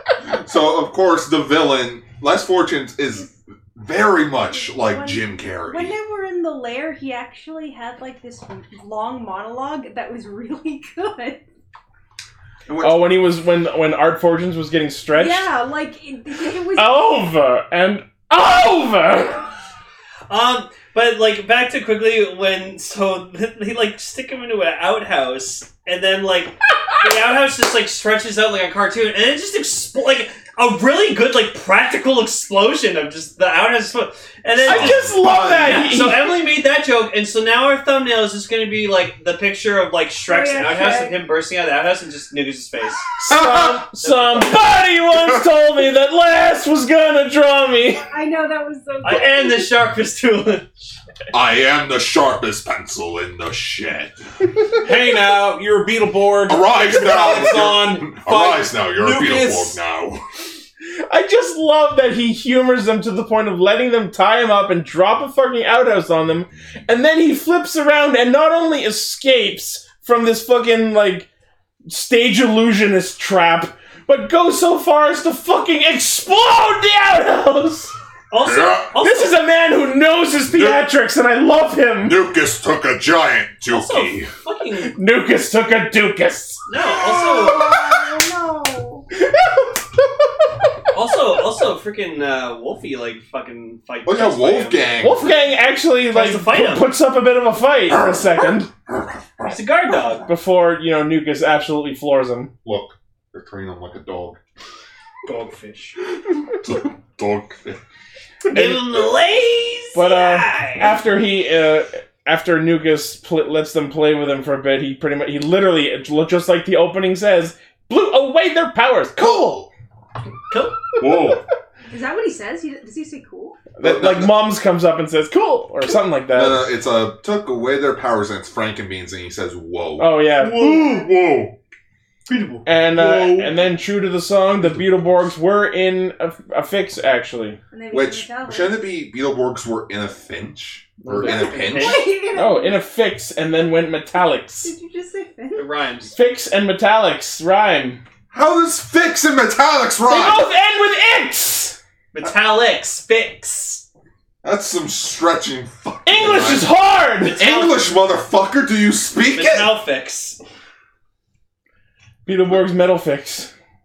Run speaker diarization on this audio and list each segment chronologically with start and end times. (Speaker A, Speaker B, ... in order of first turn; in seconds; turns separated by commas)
Speaker A: 0.2-6.0, Speaker B: 4.5-11.4, Speaker A: 12.7-13.2, Speaker C: 12.8-15.5, Speaker B: 15.1-17.1, Speaker C: 16.8-19.5, Speaker D: 20.3-43.1, Speaker A: 34.6-35.9, Speaker C: 34.6-36.4, Speaker B: 40.3-41.2, Speaker C: 43.2-48.0, Speaker A: 43.3-43.9, Speaker D: 44.0-44.7, Speaker A: 45.1-45.4, Speaker B: 48.1-49.7, Speaker D: 49.0-50.7, Speaker A: 51.3-54.2, Speaker E: 54.8-59.8, Speaker A: 56.5-60.2, Speaker C: 61.1-71.3, Speaker C: 71.9-77.9, Speaker D: 78.3-79.3, Speaker A: 78.4-79.0, Speaker C: 79.0-82.2, Speaker A: 80.5-80.8, Speaker A: 82.0-84.3, Speaker D: 83.7-85.0, Speaker C: 84.9-86.6, Speaker D: 86.7-87.7, Speaker B: 86.8-89.1, Speaker C: 89.2-89.8, Speaker D: 90.9-94.9, Speaker A: 94.1-95.3, Speaker C: 95.0-98.7, Speaker D: 96.1-96.9, Speaker A: 97.9-100.0, Speaker D: 99.5-100.3, Speaker C: 100.3-102.5, Speaker A: 102.6-104.4, Speaker D: 105.3-106.0, Speaker A: 106.2-107.8, Speaker A: 108.5-109.1, Speaker D: 108.5-111.0, Speaker C: 110.0-119.7, Speaker A: 119.2-119.7, Speaker D: 120.5-120.8, Speaker A: 121.0-121.5, Speaker B: 121.9-123.7, Speaker C: 123.8-126.7, Speaker A: 123.8-124.3, Speaker A: 126.3-131.6, Speaker C: 130.0-130.7, Speaker B: 130.7-131.0, Speaker C: 132.7-137.6, Speaker A: 134.6-134.9, Speaker B: 137.7-138.8, Speaker A: 137.9-142.1, Speaker C: 141.0-141.6, Speaker D: 141.3-142.2, Speaker B: 141.3-142.8, Speaker C: 142.3-144.7, Speaker B: 144.6-145.7, Speaker D: 145.5-146.1, Speaker C: 146.1-148.0, Speaker A: 148.3-150.5, Speaker C: 150.0-151.8, Speaker D: 152.1-153.8, Speaker A: 154.4-156.7, Speaker C: 156.1-157.4, Speaker D: 157.2-157.9, Speaker A: 157.3-159.8, Speaker D: 159.3-160.4, Speaker C: 162.3-163.5